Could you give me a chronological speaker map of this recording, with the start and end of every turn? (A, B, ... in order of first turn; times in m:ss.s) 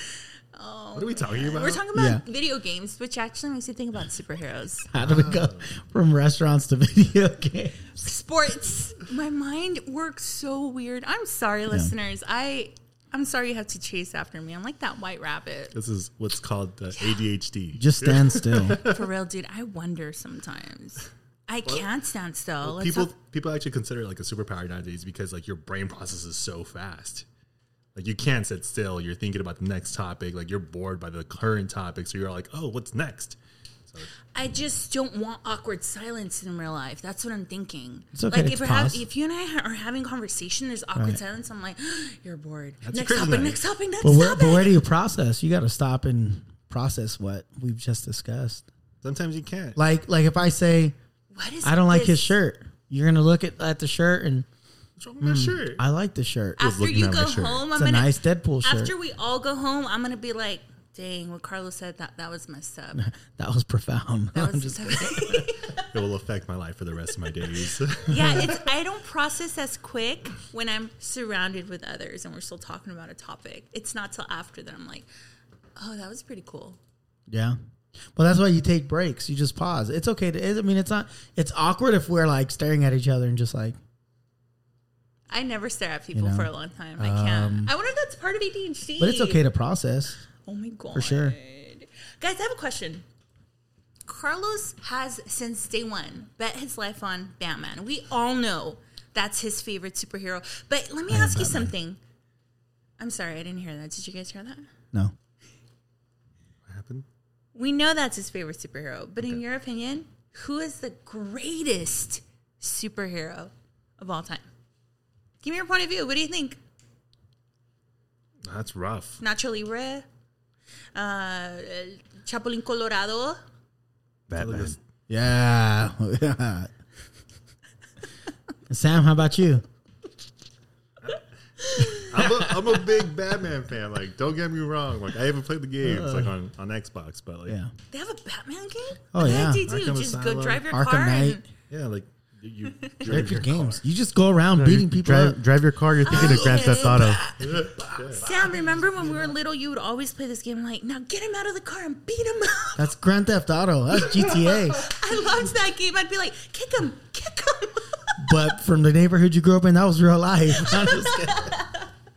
0:00.1-0:04.9 A
0:00.9-0:01.8 B
0:01.9-0:02.2 C
0:04.9-0:07.9 C
0:05.0-0:05.7 B
0:08.0-0:15.7 A
0:15.7-0:19.0 B
0:17.0-0:17.2 A
0:17.8-0:18.8 C
0:18.8-0:23.1 A
0:22.6-0:27.2 B
0:27.9-0:33.4 B
0:34.3-0:44.7 A
0:38.1-0:39.0 C
0:42.8-0:43.6 B
0:44.0-0:48.6 C
0:49.0-0:49.8 B
0:49.8-0:50.9 C
0:51.3-0:52.3 A
0:51.6-0:54.4 C
0:55.0-0:55.8 B
0:55.2-0:56.6 C
0:56.6-1:03.0 A
0:56.6-0:57.7 B
0:57.7-0:58.9 C
1:02.9-1:05.5 C
1:04.3-1:05.9 A
1:05.8-1:08.4 B
1:08.0-1:15.1 A
1:15.8-1:16.8 A
1:17.3-1:17.6 C
1:18.1-1:23.8 C
1:25.3-1:29.4 A
1:26.1-1:27.7 C
1:29.0-1:30.2 C
1:30.4-1:33.0 A
1:30.9-1:31.4 C
1:34.1-1:42.0 A
1:41.1-1:41.7 C
1:43.0-1:44.7 A
1:46.6-1:47.0 B
1:47.5-1:54.4 A
1:55.4-1:56.6 A
1:58.4-1:59.2 B
1:59.2-2:00.0 A
2:00.9-2:03.4 A
2:04.3-2:04.8 D
2:04.3-2:04.8 B
2:05.1-2:06.7 C
2:08.7-2:09.6 C
2:11.0-2:11.3 B
2:11.6-2:12.1 A
2:11.9-2:17.6 B
2:15.8-2:16.3 C
2:17.5-2:17.7 C
2:17.9-2:21.5 A
2:19.1-2:19.6 C
2:19.2-2:20.6 B
2:20.7-2:21.4 C
2:21.7-2:23.8 B
2:23.0-2:25.4 C
2:23.1-2:23.4 D
2:24.5-2:27.2 D
2:26.0-2:27.3 A
2:26.0-2:28.1 C
2:27.4-2:28.3 B
2:28.2-2:32.9 A
2:32.8-2:34.9 C
2:34.2-2:38.5 A
2:38.2-2:41.5 C
2:40.6-2:41.9 A